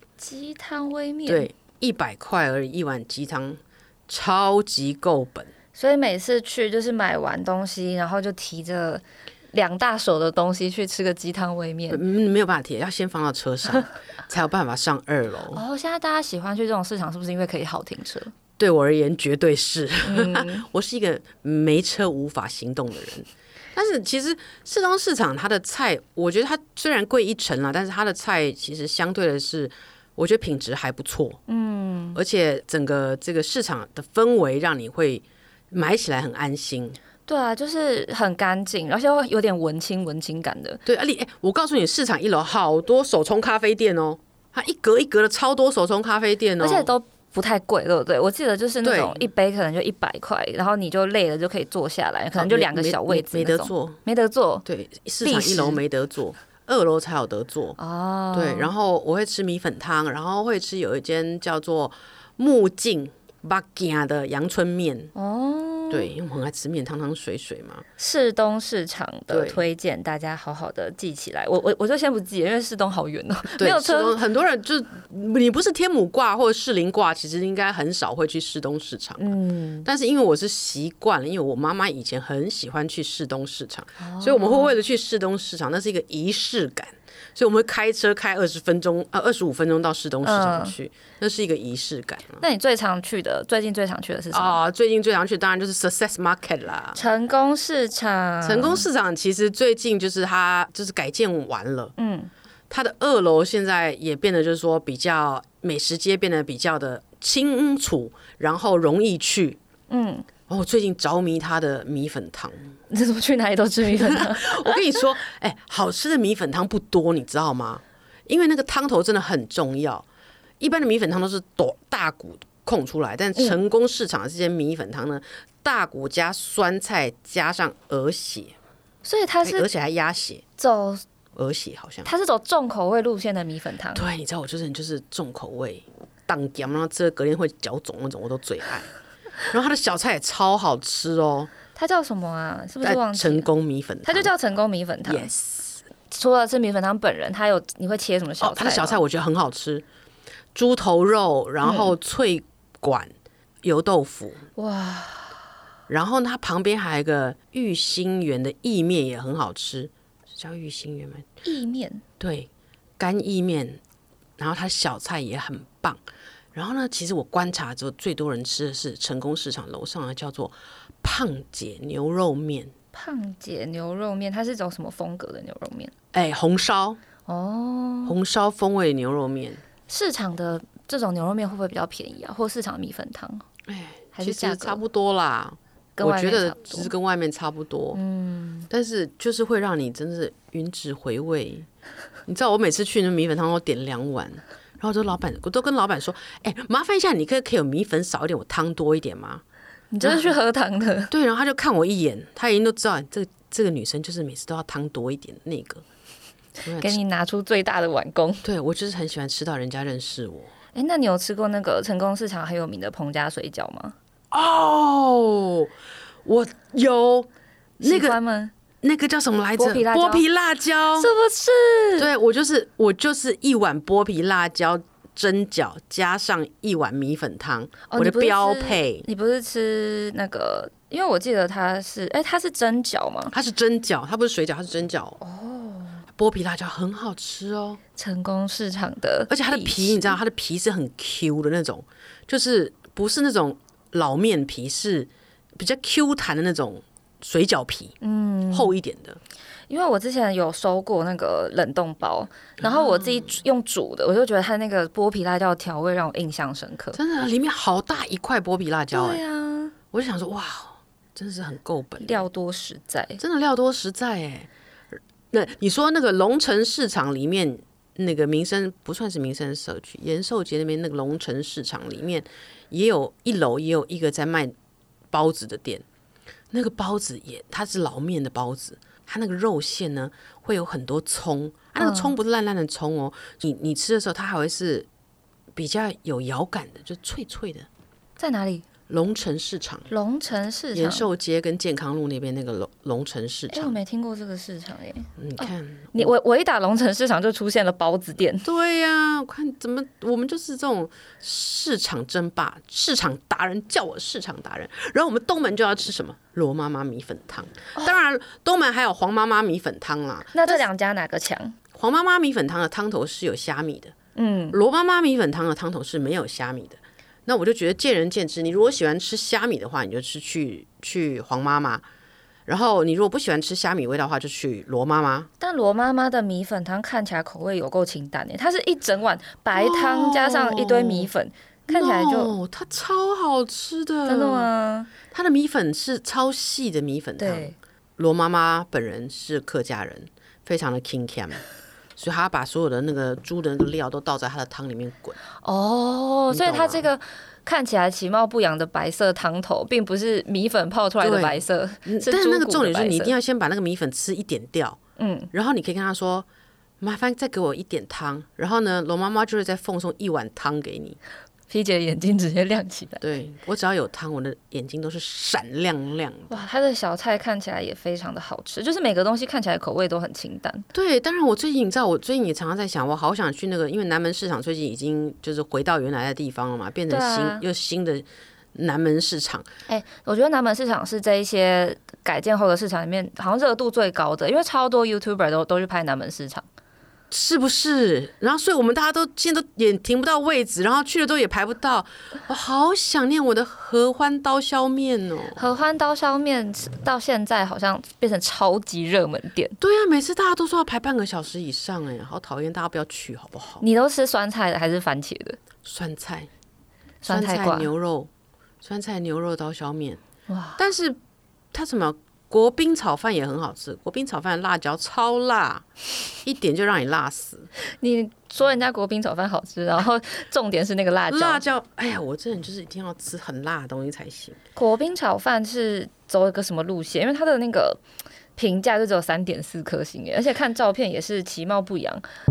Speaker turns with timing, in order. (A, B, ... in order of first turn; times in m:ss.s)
0:00.2-0:01.5 A
0:01.3-0:05.5 B
0:05.8-0:12.0 A
0:11.9-0:15.6 B
0:15.5-0:18.3 A
0:18.6-0:31.4 B
0:20.0-0:20.7 A
0:31.5-0:32.2 A
0:32.2-0:37.0 B
0:37.3-0:40.8 A
0:40.8-0:46.9 B
0:46.6-0:54.6 A
0:48.8-0:49.3 B
0:52.3-0:54.0 B
0:54.6-0:57.8 B
0:55.2-0:55.8 A
0:57.8-0:58.7 A
0:58.3-1:05.1 B
1:05.2-1:06.1 A
1:05.9-1:07.8 B
1:08.0-1:14.2 A
1:09.3-1:09.6 B
1:13.6-1:19.3 B
1:19.2-1:19.9 A
1:19.8-1:32.4 B
1:24.0-1:24.7 A
1:30.2-1:30.8 A
1:32.4-1:34.6 A
1:34.3-1:37.0 B
1:37.0-1:38.8 A
1:38.4-1:41.9 B
1:42.0-1:42.3 A
1:42.7-1:49.6 B
1:49.9-1:50.3 A
1:50.5-1:52.7 B
1:52.9-1:54.8 A
1:53.9-2:00.1 B
2:00.6-2:08.6 B
2:09.0-2:09.7 A
2:09.4-2:10.4 B
2:10.6-2:11.0 A
2:11.4-2:12.1 B
2:12.0-2:14.0 A
2:13.9-2:18.9 B
2:19.5-2:21.5 B
2:21.8-2:23.5 A
2:22.8-2:24.3 B
2:24.1-2:25.3 A
2:25.1-2:25.8 B
2:26.1-2:29.0 A
2:28.4-2:29.8 B
2:30.5-2:34.4 B
2:31.6-2:31.9 A
2:34.6-2:35.3 A
2:35.9-2:41.3 B
2:41.4-2:42.0 A
2:42.2-2:43.8 B
2:44.4-2:46.0 B
2:46.5-2:52.7 B
2:52.9-2:55.9 A
2:56.1-2:57.0 B
2:57.3-2:58.2 A
2:58.0-2:59.6 B
2:59.9-3:03.5 A
3:03.7-3:08.0 B
3:04.1-3:04.8 A
3:06.0-3:06.9 A
3:07.9-3:08.7 A
3:08.7-3:11.7 B
3:12.3-3:19.4 B
3:19.9-3:21.1 A
3:20.0-3:20.4 B
3:21.1-3:25.8 B
3:26.6-3:27.0 B
3:26.8-3:28.4 A
3:28.4-3:30.5 B
3:30.8-3:34.0 A
3:34.3-3:35.7 B
3:36.2-3:38.2 B
3:37.8-3:38.5 A
3:38.8-3:41.1 B
3:39.6-3:40.2 A
3:41.0-3:42.1 A
3:42.0-3:49.1 B
3:47.9-3:53.3 A
3:53.3-3:55.2 B
3:55.2-3:56.0 A
3:56.1-3:57.8 B
3:58.0-4:00.2 A
3:59.3-4:08.0 B
4:08.0-4:08.7 A
4:08.5-4:09.2 B
4:09.7-4:17.0 A
4:12.6-4:13.3 B
4:17.0-4:19.2 B
4:18.9-4:19.8 A
4:19.9-4:22.2 B
4:22.0-4:23.2 A
4:23.2-4:24.5 B
4:25.3-4:34.6 B
4:35.1-4:35.8 B
4:36.5-4:44.9 B
4:41.8-4:42.1 A
4:45.5-4:47.7 B
4:48.2-4:48.6 A
4:48.9-4:49.9 B
4:49.9-4:51.1 A
4:50.7-4:53.8 B
4:53.5-4:58.5 A
4:55.2-4:56.1 B
4:58.4-5:10.7 B
5:10.3-5:11.6 A
5:11.7-5:14.0 B
5:14.2-5:14.6 A
5:14.5-5:21.8 B
5:22.5-5:25.3 B
5:25.4-5:32.3 A
5:29.5-5:31.1 B
5:31.7-5:34.5 B
5:34.1-5:34.9 A
5:35.1-5:41.4 B
5:37.2-5:37.6 A
5:42.0-5:45.2 B
5:45.4-5:53.1 A
5:46.3-5:46.9 B
5:51.0-5:54.8 B
5:55.0-5:55.3 A
5:55.3-5:56.3 B
5:56.8-6:01.0 B
6:01.5-6:03.0 A
6:03.0-6:06.4 B
6:06.3-6:10.7 A
6:10.7-6:19.5 B
6:16.9-6:17.4 A
6:19.7-6:26.5 A
6:27.1-6:35.4 B
6:35.4-6:39.6 A
6:39.6-6:43.6 B
6:43.6-6:45.4 A
6:45.6-6:46.3 B
6:47.0-6:47.7 A
6:47.1-6:48.1 B
6:48.6-6:50.0 B
6:50.3-6:50.6 A
6:50.6-6:51.0 B
6:51.5-6:55.7 B
6:56.2-6:57.5 B
6:57.8-7:01.4 A
7:01.1-7:04.4 B
7:04.6-7:07.8 A
7:08.4-7:12.1 A